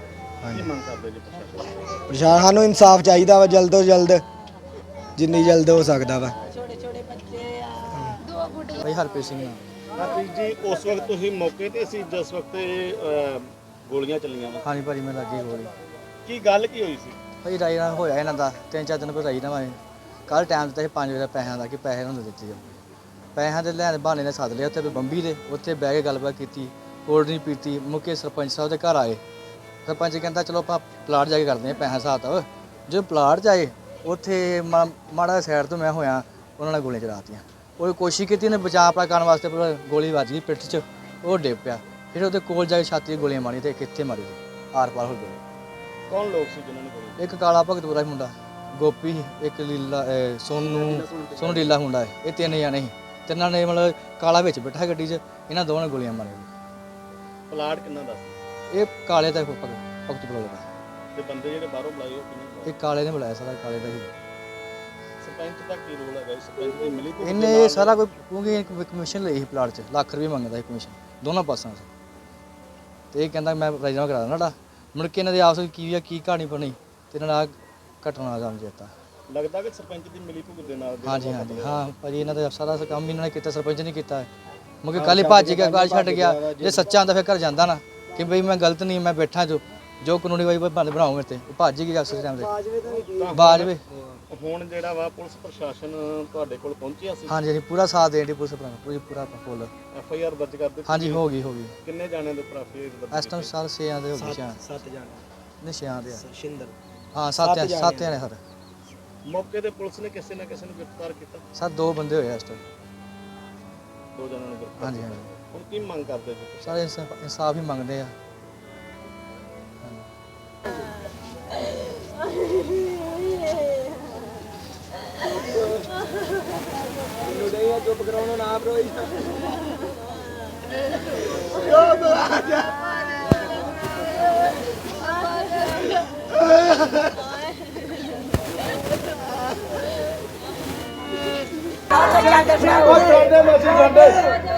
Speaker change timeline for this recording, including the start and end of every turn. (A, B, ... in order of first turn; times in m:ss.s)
0:00.4-0:00.7 A
0:00.5-0:01.8 B
0:02.1-0:04.2 A
0:05.2-0:06.3 A
0:07.9-0:08.2 A
0:08.7-0:09.6 C
0:10.0-0:14.6 B
0:14.6-0:15.7 C
0:16.2-0:17.2 B
0:17.4-0:19.8 C
0:20.3-0:22.6 C
0:23.3-0:29.2 C
0:29.8-0:45.4 C
0:46.1-0:47.2 B
0:47.2-0:56.5 C
0:50.6-0:51.8 B
0:57.5-0:58.4 B
0:58.7-1:00.6 C
1:01.1-1:02.7 B
1:02.6-1:04.1 C
1:05.2-1:08.0 B
1:07.2-1:11.9 C
1:13.1-1:18.9 C
1:19.3-1:21.8 B
1:21.0-1:24.3 C
1:24.8-1:32.6 C
1:24.9-1:26.9 A
1:32.8-1:33.7 B
1:33.3-1:33.8 C
1:34.3-1:37.4 B
1:37.3-1:39.7 C
1:39.9-1:41.2 B
1:40.8-1:41.7 C
1:41.8-1:43.5 B
1:43.1-1:44.6 C
1:44.1-1:45.2 A
1:45.6-1:46.2 C
1:46.1-1:46.7 A
1:47.1-1:48.4 C
1:47.4-1:48.2 A
1:49.2-1:51.4 B
1:51.5-1:52.6 C
1:54.1-1:56.8 B
1:54.8-1:55.3 C
1:56.6-1:58.1 C
2:07.2-2:09.3 A
2:11.5-2:12.8 A
2:16.5-2:17.0 A
2:22.0-2:24.4 B